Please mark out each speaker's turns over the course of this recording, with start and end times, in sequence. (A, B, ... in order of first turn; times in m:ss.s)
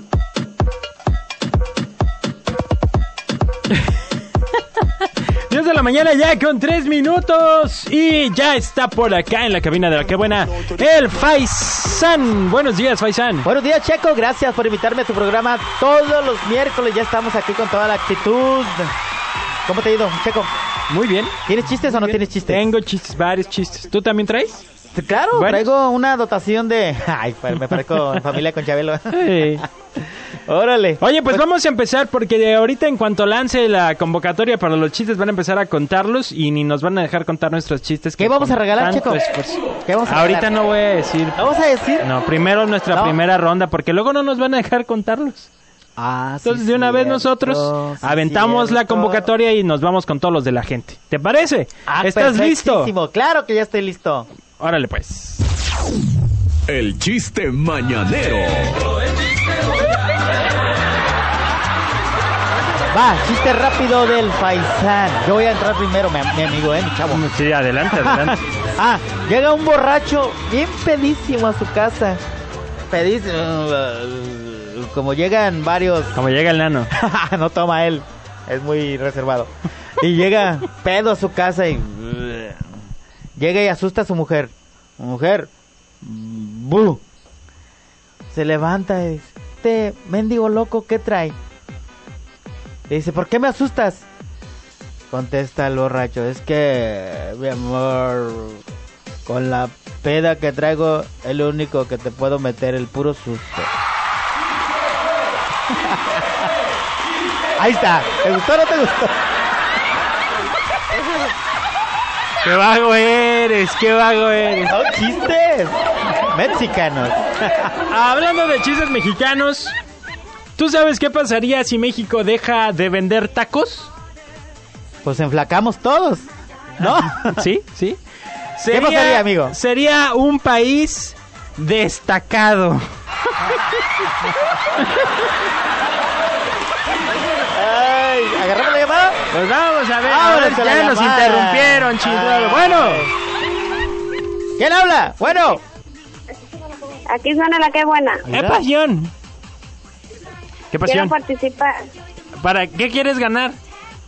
0:05.5-0:13.5 A
0:13.4-0:18.9 B
0:19.6-0:20.5 B
0:20.9-0:24.6 A
0:21.4-0:22.6 B
0:24.9-0:29.7 B
0:25.3-0:25.7 A
0:29.1-0:29.6 A
0:30.4-0:31.4 B
0:31.0-0:45.5 A
0:38.2-0:39.2 B
0:39.8-0:40.5 B
0:41.4-0:42.1 B
0:42.9-0:43.2 B
0:46.0-0:49.3 B
0:46.4-0:52.9 A
0:51.9-0:54.3 B
0:54.6-0:55.4 A
0:56.7-0:58.8 C
1:02.9-1:07.2 B
1:07.1-1:08.4 A
1:07.9-1:12.2 B
1:12.9-1:16.2 B
1:16.1-1:16.9 A
1:16.9-1:22.6 B
1:23.4-1:25.5 B
1:26.0-1:27.0 B
1:28.3-1:31.3 B
1:32.9-1:34.0 B
1:35.1-1:38.6 B
1:39.2-1:43.7 B
1:45.8-1:46.2 B
1:47.6-1:49.1 B
1:52.4-1:54.7 A
1:54.7-1:57.7 B
1:57.9-1:59.7 A
2:00.6-2:03.9 A
2:05.0-2:06.3 B
2:06.8-2:07.4 B
2:06.8-2:08.0 A
2:08.6-2:12.8 A
2:08.7-2:09.6 B
2:17.5-2:19.2 B
2:19.3-2:23.1 A
2:20.0-2:23.1 B
2:24.6-2:25.6 B
2:27.1-2:28.2 D
2:28.3-2:28.6 B
2:28.3-2:29.1 A
2:30.7-2:31.1 A
2:30.8-2:31.8 D
2:32.4-2:33.6 A